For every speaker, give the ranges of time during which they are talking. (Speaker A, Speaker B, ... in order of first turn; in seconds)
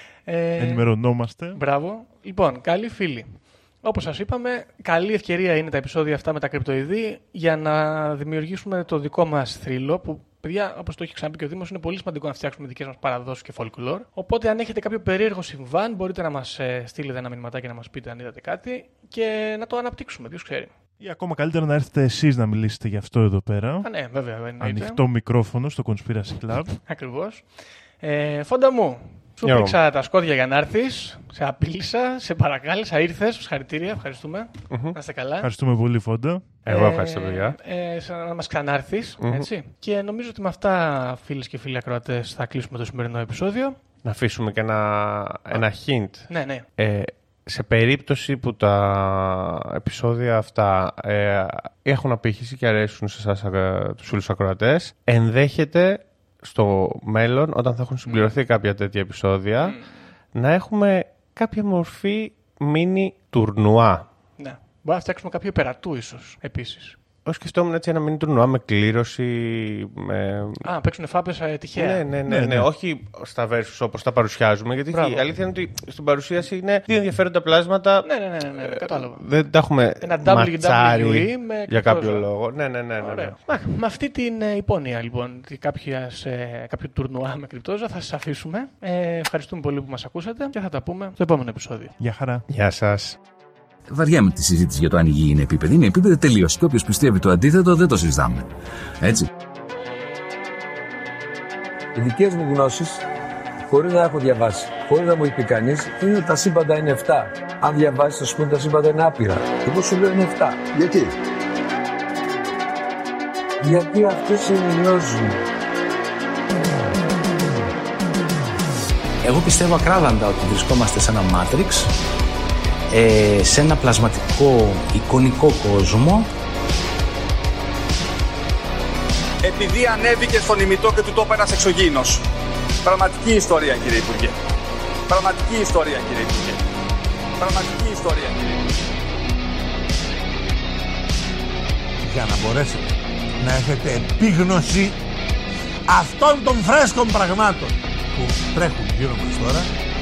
Speaker A: 0.2-0.8, 1.5-20.7, 23.8-25.0, 26.9-35.5, 36.7-43.8, 46.3-46.6, 58.1-58.4, 59.6-59.9, 64.4-67.0, 70.6-72.0, 74.9-75.3, 78.0-79.2, 80.0-82.2, 83.0-91.9
Speaker B: 0.6-1.6, 21.0-23.9, 24.6-26.8, 35.4-36.5, 72.3-72.7, 92.0-92.4
Speaker C: 29.4-29.8, 34.7-35.0, 36.6-37.5, 39.2-39.5, 44.0-59.8, 60.3-64.1, 67.2-70.6, 71.8-83.4, 92.5-93.2
Speaker D: 93.9-98.5, 99.0-99.3
Speaker E: 101.9-103.0, 103.7-111.1, 113.6-115.4
Speaker F: 119.2-121.9, 122.9-126.3
Speaker G: 129.4-132.2, 132.8-134.3, 135.1-136.6, 137.4-138.7
Speaker H: 142.0-145.0, 145.9-149.7